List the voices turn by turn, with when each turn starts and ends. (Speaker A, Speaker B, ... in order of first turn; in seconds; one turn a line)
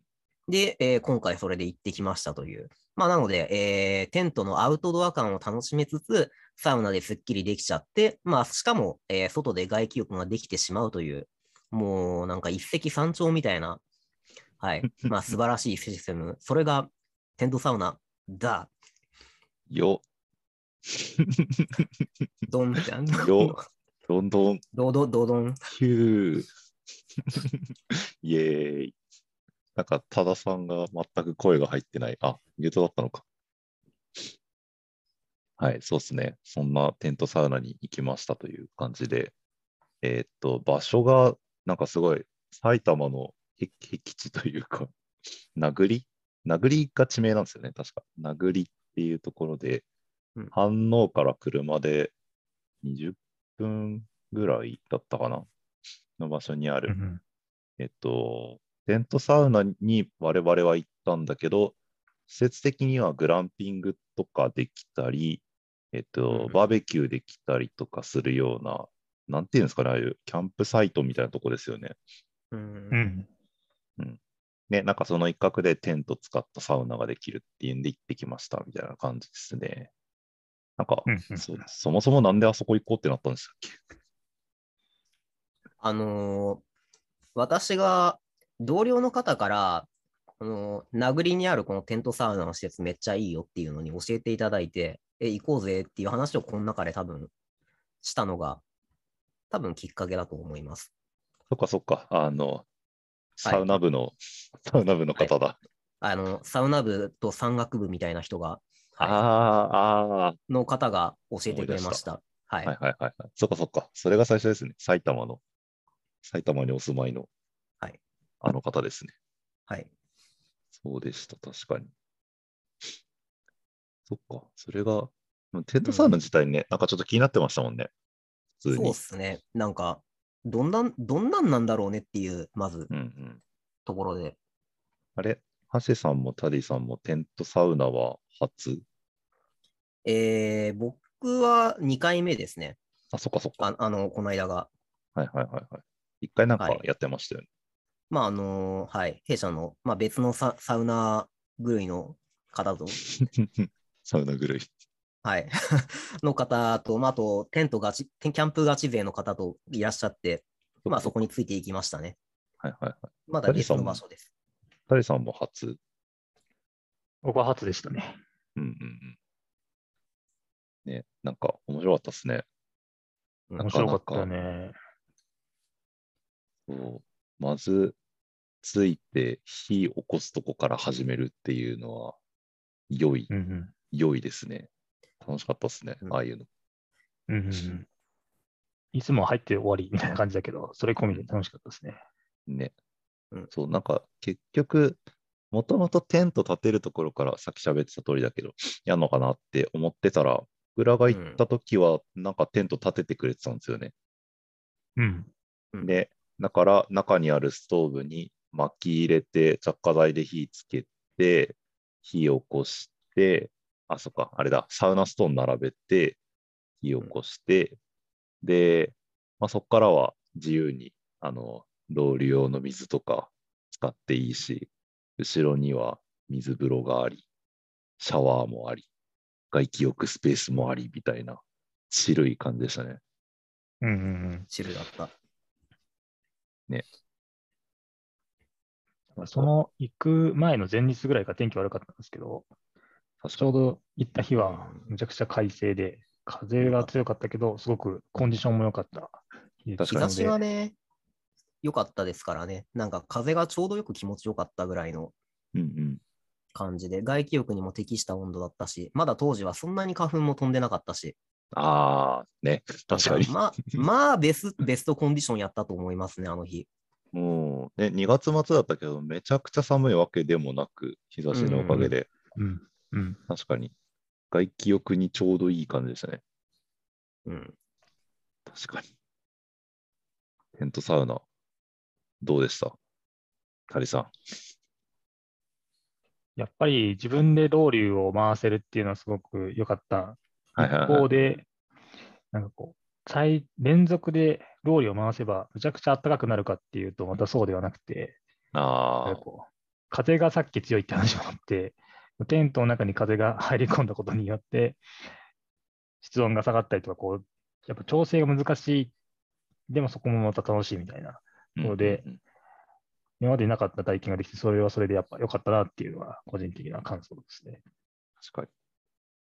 Speaker A: 0.5-13.8
Speaker A: 14.6-18.7
Speaker B: 19.7-20.0
Speaker B: 20.9-21.9
Speaker A: 22.5-23.6
Speaker B: 23.1-24.6
Speaker A: 24.7-25.6
Speaker B: 25.7-26.5
Speaker B: 27.2-28.9
Speaker B: 29.7-33.2
Speaker B: 35.6-39.3
Speaker B: 40.0-44.9
Speaker B: 45.5-49.8
Speaker B: 50.5-52.1
Speaker B: 52.8-55.5
Speaker B: 56.2-56.9
Speaker C: 56.9-57.2
Speaker B: 57.8-61.8
Speaker B: 62.3-72.0
Speaker A: 66.3-66.6
Speaker A: 72.5-73.0
Speaker C: 72.9-73.3
Speaker B: 74.7-79.9
Speaker B: 80.8-83.8
Speaker C: 81.1-81.5
Speaker A: 85.8-86.6
Speaker A: 87.3-89.9
Speaker A: 90.4-97.3
Speaker A: 98.0-98.6
Speaker A: 99.5-100.9
Speaker B: 101.5-102.7
Speaker B: 103.4-105.6
Speaker A: 106.0-109.2
Speaker B: 109.0-110.4
Speaker A: 110.5-112.7
Speaker B: 111.5-112.0
Speaker B: 112.6-115.4
Speaker B: 116.2-117.3
Speaker B: 118.4-119.1
Speaker B: 120.8-121.9
Speaker B: 124.1-127.9
Speaker A: 125.8-126.1
Speaker B: 128.6-129.0
Speaker A: 128.7-132.9
Speaker B: 132.9-133.4
Speaker A: 133.8-134.4
Speaker B: 135.2-138.8
Speaker A: 140.0-142.8
Speaker B: 143.1-143.7
Speaker A: 143.6-144.7
Speaker B: 145.2-147.4
Speaker A: 146.6-146.8
Speaker A: 148.1-153.0
Speaker B: 153.0-154.7
Speaker A: 155.2-162.2
Speaker B: 160.8-161.1
Speaker B: 162.6-164.0
Speaker A: 163.3-164.3
Speaker B: 164.9-165.8
Speaker C: 167.2-168.2
Speaker B: 168.6-169.2
Speaker B: 170.8-172.4
Speaker C: 173.6-174.8
Speaker B: 173.6-174.3
Speaker B: 176.7-177.9
Speaker B: 178.6-182.2
Speaker B: 182.9-183.3
Speaker C: 183.3-183.7
Speaker B: 183.9-184.7
Speaker B: 185.2-186.5
Speaker C: 187.3-187.8
Speaker C: 188.9-192.0
Speaker B: 192.5-192.7
Speaker B: 193.5-195.0
Speaker B: 195.5-203.9
Speaker A: 201.1-201.4
Speaker C: 205.0-205.3
Speaker B: 205.8-216.2
Speaker B: 216.8-217.8
Speaker B: 218.4-227.2
Speaker B: 228.0-228.9
Speaker B: 229.5-233.0
Speaker C: 233.8-234.5
Speaker A: 234.5-235.1
Speaker C: 239.2-242.5
Speaker B: 239.2-239.5
Speaker B: 243.2-243.5
Speaker C: 243.4-250.4
Speaker A: 244.4-244.9
Speaker A: 246.6-246.9
Speaker B: 249.8-250.1
Speaker A: 249.9-250.8
Speaker A: 251.6-255.1
Speaker B: 255.5-256.0
Speaker A: 256.5-261.1
Speaker B: 261.5-263.8
Speaker A: 262.9-266.7
Speaker B: 267.1-272.1
Speaker A: 271.3-271.9
Speaker C: 271.8-273.2
Speaker B: 273.3-273.7
Speaker B: 274.3-276.2
Speaker A: 277.2-277.6
Speaker B: 278.5-278.9
Speaker B: 280.6-281.2
Speaker B: 282.2-282.8
Speaker B: 283.7-284.1
Speaker C: 286.4-291.4
Speaker B: 290.6-291.4
Speaker C: 292.3-298.2
Speaker B: 298.5-299.2
Speaker C: 299.0-304.8
Speaker C: 306.0-308.9
Speaker C: 309.7-312.0
Speaker B: 311.6-312.2
Speaker C: 313.2-317.6
Speaker B: 318.2-318.5